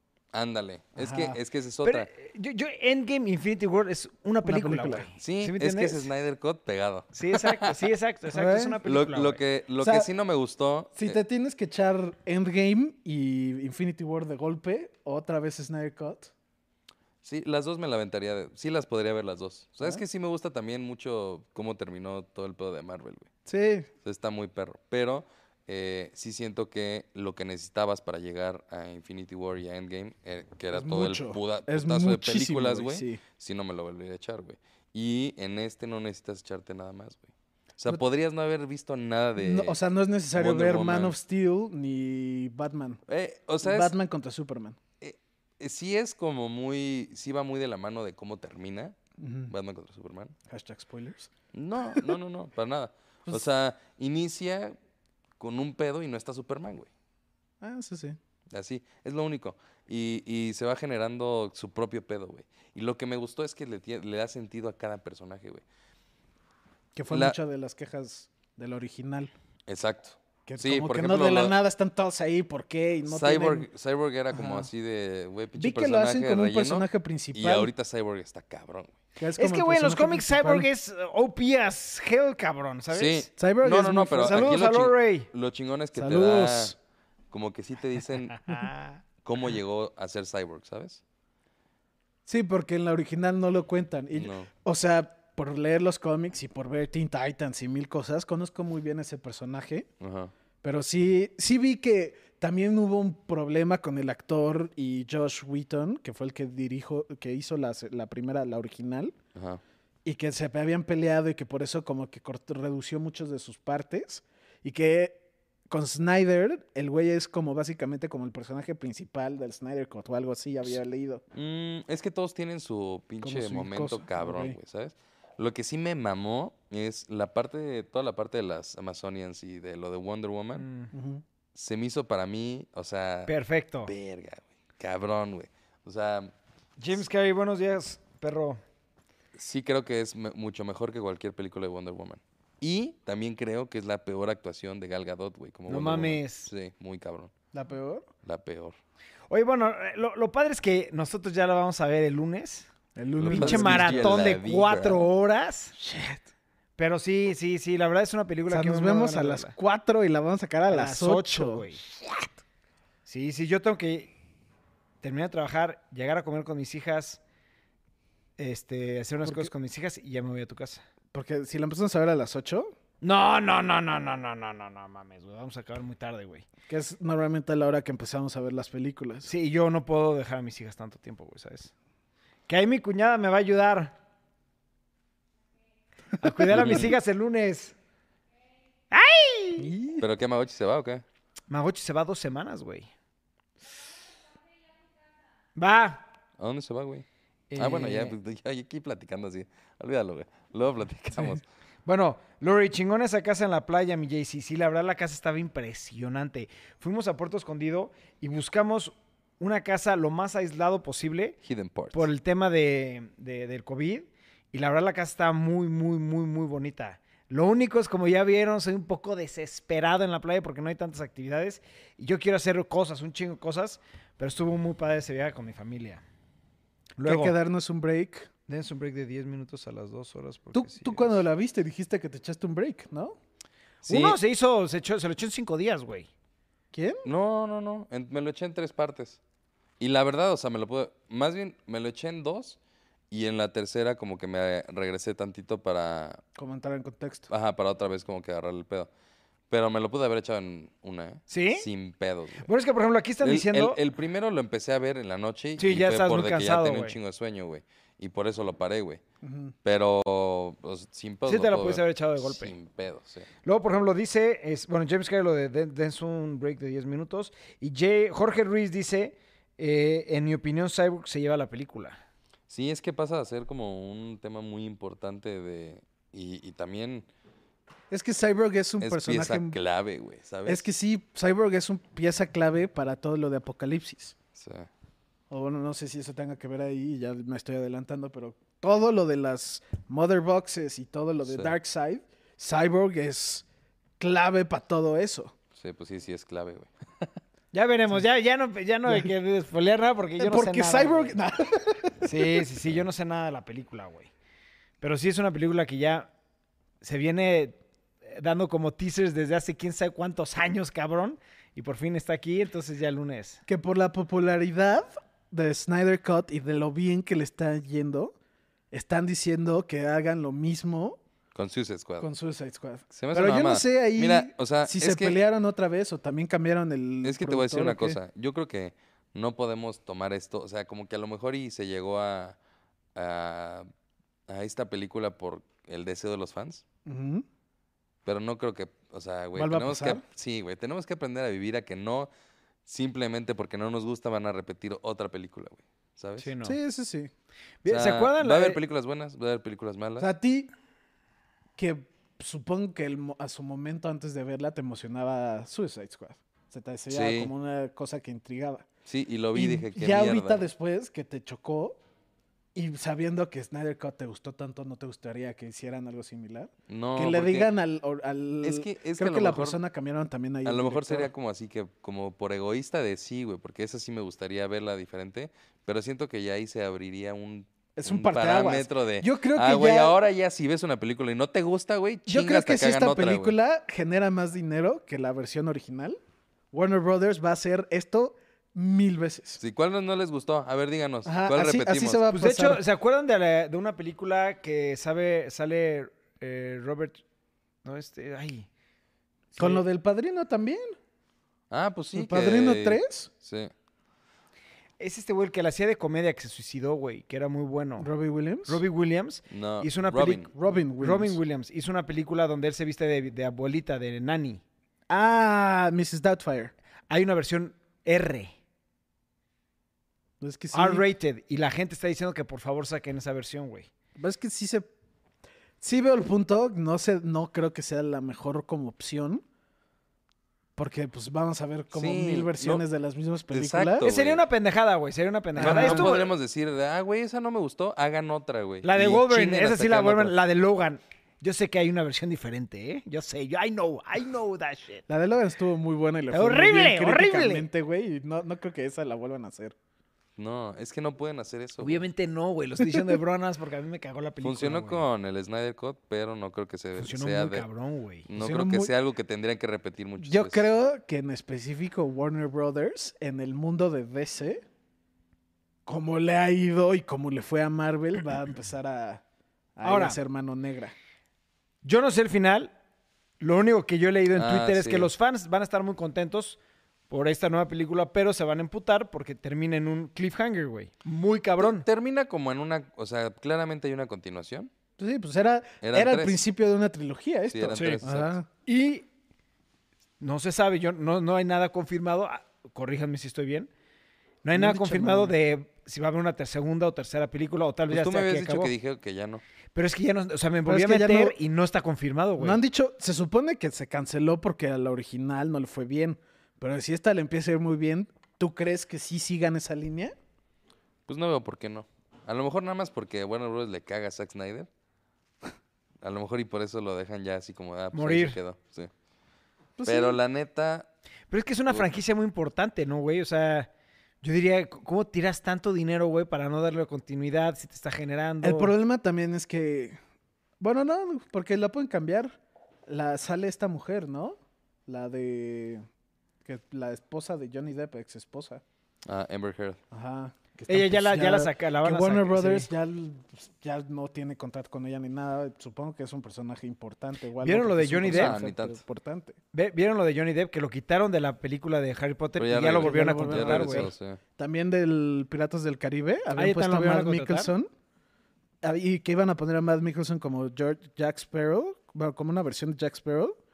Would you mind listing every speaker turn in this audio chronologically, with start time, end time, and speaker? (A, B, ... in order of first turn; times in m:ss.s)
0:00.3-0:02.1 A
0:01.0-0:01.4 B
0:01.8-0:06.1 C
0:04.4-0:05.1 B
0:05.2-0:07.8 A
0:07.1-0:09.4 C
0:08.3-0:08.8 B
0:08.8-0:11.2 A
0:09.8-0:10.1 B
0:11.0-0:16.3 B
0:17.2-0:23.3 A
0:23.4-0:23.9 B
0:24.0-0:39.8 A
0:30.7-0:33.2 B
0:39.4-0:43.0 B
0:40.3-0:41.1 A
0:43.1-0:43.9 A
0:43.6-0:44.8 B
0:45.0-0:49.0 A
0:49.2-0:49.5 B
0:49.5-0:50.3 A
0:50.5-0:51.3 B
0:51.5-0:54.7 A
0:51.8-0:52.1 B
0:55.4-0:56.9 A
0:57.6-0:58.2 B
0:58.5-1:05.6 A
1:06.9-1:09.3 B
1:07.1-1:07.4 A
1:09.7-1:11.5 A
1:10.5-1:13.7 B
1:13.1-1:19.0 A
1:14.3-1:14.7 B
1:15.6-1:17.7 B
1:19.2-1:20.7 B
1:19.4-1:23.3 C
1:22.9-1:26.7 A
1:23.4-1:24.5 B
1:24.2-1:25.3 C
1:26.0-1:26.8 B
1:27.3-1:28.6 A
1:28.5-1:29.0 C
1:29.2-1:31.0 A
1:32.2-1:39.9 B
1:34.1-1:34.5 A
1:40.0-1:40.3 A
1:40.6-1:49.1 B
1:49.3-1:49.6 A
1:50.0-2:01.2 B
2:01.3-2:10.6 A
2:03.2-2:04.6 B
2:10.6-2:10.9 C
2:10.9-2:11.2 B
2:11.5-2:13.3 A
2:13.3-2:13.9 C
2:13.8-2:16.3 A
2:16.8-2:18.6 C
2:19.3-2:27.3 A
2:25.7-2:26.5 C
2:27.5-2:28.1 B
2:28.2-2:28.8 A
2:29.3-2:32.7 C
2:33.0-2:34.3 B
2:33.2-2:35.0 A
2:33.3-2:35.7 C
2:35.8-2:36.2 B
2:36.8-2:39.5 C
2:38.5-2:42.3 B
2:40.7-2:41.8 C
2:43.0-2:44.1 C
2:45.0-2:47.2 C
2:48.4-2:50.8 C
2:49.2-2:49.5 B
2:51.1-2:52.7 B
2:53.0-2:56.4 C
2:56.7-2:59.3 B
2:59.2-3:01.7 C
3:02.5-3:03.9 C
3:06.2-3:07.7 C
3:06.5-3:06.9 A
3:08.9-3:09.7 C
3:09.6-3:10.0 B
3:10.0-3:11.0 A
3:11.5-3:12.9 C
3:15.6-3:16.0 C
3:16.4-3:17.0 A
3:17.5-3:18.1 C
3:17.6-3:21.4 A
3:21.8-3:31.4 C
3:31.4-3:32.1 A
3:31.9-3:46.0 C
3:47.0-3:47.3 C
3:47.0-3:48.3 B
3:48.5-3:51.2 C
3:50.5-3:53.2 B
3:53.8-3:54.2 A
3:53.8-3:56.1 C
3:56.7-3:57.0 B
3:57.0-3:59.2 A
3:59.8-4:02.6 A
4:03.1-4:06.2 A
4:06.4-4:07.3 B
4:07.3-4:08.9 A
4:09.5-4:12.5 A
4:11.3-4:11.7 C
4:12.4-4:13.8 C
4:13.2-4:19.0 A
4:15.6-4:17.0 C
4:19.2-4:19.5 B
4:19.6-4:23.3 A
4:21.2-4:22.5 C
4:23.4-4:32.0 C
4:32.5-4:37.1 A
4:37.9-4:39.6 B
4:38.8-4:40.6 A
4:40.4-4:44.2 B
4:44.3-4:44.7 A
4:45.3-4:53.4 B
4:51.2-4:51.5 A
4:54.0-4:55.3 B
4:55.6-4:57.1 A
4:57.5-5:01.1 C
5:00.2-5:02.3 B
5:02.0-5:04.1 C
5:04.8-5:06.1 C
5:06.8-5:13.4 C
5:13.4-5:18.1 B
5:18.7-5:21.0 B
5:21.3-5:22.1 A
5:22.0-5:28.0 B
5:22.9-5:25.2 A
5:27.0-5:32.4 A
5:32.9-5:33.7 A
5:34.3-5:36.6 A
5:36.8-5:37.2 B
5:38.0-5:42.1 A
5:39.4-5:40.0 B
5:42.6-5:46.3 A
5:46.2-5:46.6 C
5:46.4-5:47.1 B
5:47.6-5:48.6 C
5:47.6-5:50.1 A
5:50.0-5:50.5 B
5:51.6-5:58.7 B
5:56.9-5:57.3 A
5:58.8-6:00.4 A
5:59.3-6:01.8 B
6:02.5-6:11.1 B
6:06.7-6:07.5 A
6:08.4-6:09.6 A
6:10.4-6:23.3 A
6:17.8-6:20.0 B
6:22.1-6:26.0 B
6:26.5-6:29.4 B
6:29.4-6:32.1 A
6:31.0-6:32.6 B
6:32.1-6:37.0 C
6:37.6-6:38.5 C
6:39.3-6:39.6 C
6:39.4-6:40.7 B
6:41.5-6:43.5 A
6:41.9-6:43.1 B
6:44.8-6:47.9 C
6:47.8-6:48.6 B
6:48.4-6:50.2 C
6:49.3-6:50.3 A
6:50.2-6:51.2 B
6:50.8-6:54.4 C
6:54.9-6:56.5 B
6:56.9-6:58.3 C
7:00.2-7:00.8 B
7:00.5-7:03.7 C
7:04.0-7:04.7 B
7:05.6-7:09.2 B
7:10.6-7:13.9 B
7:11.7-7:12.6 A
7:13.3-7:14.2 A
7:13.8-7:16.1 C
7:15.4-7:16.0 B
7:15.4-7:20.2 A
7:18.6-7:24.8 C
7:24.9-7:29.5 B
7:26.1-7:27.5 C
7:30.2-7:31.8 A
7:31.6-7:34.8 C
7:32.6-7:33.0 B
7:34.2-7:37.4 A
7:36.8-7:38.1 C
7:38.1-7:40.4 A
7:38.2-7:38.7 B
7:40.0-7:44.4 B
7:45.6-7:49.0 B
7:49.6-7:50.7 B
7:49.6-7:50.0 C
7:51.6-7:52.5 C
7:53.2-7:56.4 C
7:54.1-7:54.9 A
7:56.9-8:01.6 C
8:01.4-8:04.5 A
8:04.8-8:08.3 B
8:05.6-8:06.2 A
8:07.3-8:08.2 A
8:07.5-8:07.8 C
8:08.4-8:08.8 C
8:10.0-8:13.5 C
8:14.2-8:18.5 C
8:14.3-8:15.1 B
8:17.7-8:19.2 A
8:19.5-8:22.4 C
8:20.4-8:21.2 B
8:22.2-8:29.9 B
8:30.9-8:34.5 A
8:35.8-8:38.7 A
8:37.7-8:38.2 C
8:39.6-8:40.0 B
8:39.6-8:40.7 A
8:41.1-8:43.5 C
8:44.0-8:48.5 C
8:48.2-8:49.8 B
8:50.4-8:55.6 B
8:56.2-8:58.4 B
8:58.8-8:59.6 A
8:59.7-9:09.2 B
9:00.5-9:02.5 C
9:07.2-9:08.2 C
9:07.8-9:08.6 A
9:09.3-9:13.7 C
9:12.2-9:14.0 A
9:12.6-9:17.5 B
9:16.1-9:17.3 C
9:18.4-9:23.2 B